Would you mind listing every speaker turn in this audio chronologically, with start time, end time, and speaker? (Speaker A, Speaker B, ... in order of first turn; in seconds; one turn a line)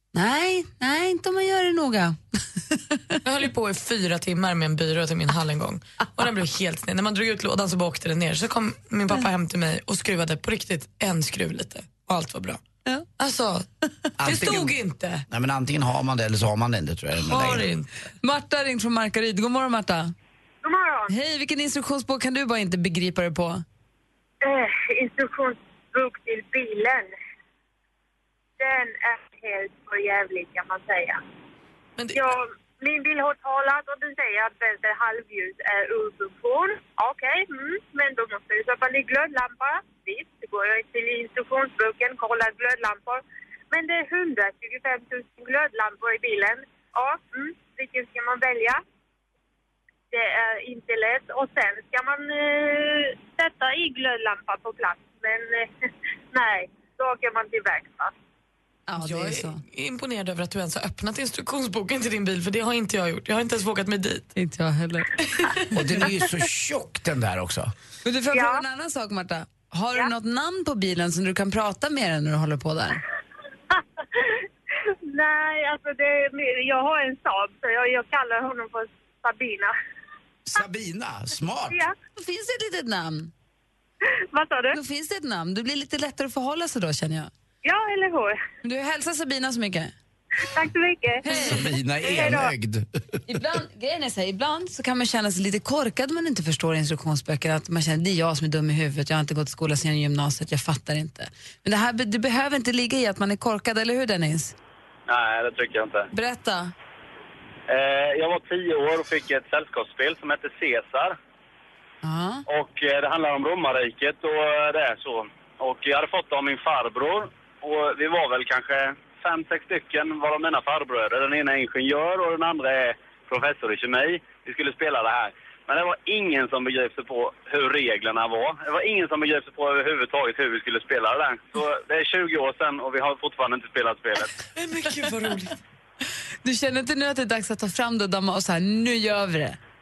Speaker A: 0.1-3.2
Speaker B: 3.2-12.6
Speaker B: 13.2-13.7
Speaker C: 14.2-14.8
Speaker B: 14.2-15.2
Speaker C: 15.3-17.7
Speaker B: 17.2-18.1
Speaker A: 18.2-20.1
Speaker D: 20.6-21.1
Speaker A: 21.1-23.6
Speaker D: 24.4-27.1
Speaker D: 28.6-31.2
Speaker B: 32.0-32.3
Speaker D: 32.1-48.8
Speaker D: 50.1-55.7
Speaker D: 56.3-58.1
Speaker A: 58.9-59.6
Speaker B: 59.0-64.3
Speaker A: 64.4-65.2
Speaker C: 65.7-67.7
Speaker A: 68.0-73.0
Speaker D: 68.3-68.6
Speaker D: 75.1-79.7
Speaker C: 80.5-81.8
Speaker A: 82.2-83.3
Speaker D: 84.3-84.8
Speaker A: 84.7-87.3
Speaker D: 87.6-88.4
Speaker A: 88.6-89.9
Speaker D: 90.5-92.5
Speaker A: 91.2-91.6
Speaker C: 91.4-93.4
Speaker A: 93.3-104.5
Speaker E: 105.1-106.1
Speaker A: 106.1-106.7
Speaker E: 107.7-111.2
Speaker A: 112.0-112.5
Speaker E: 112.5-134.4
Speaker B: 134.6-135.6
Speaker A: 136.4-139.6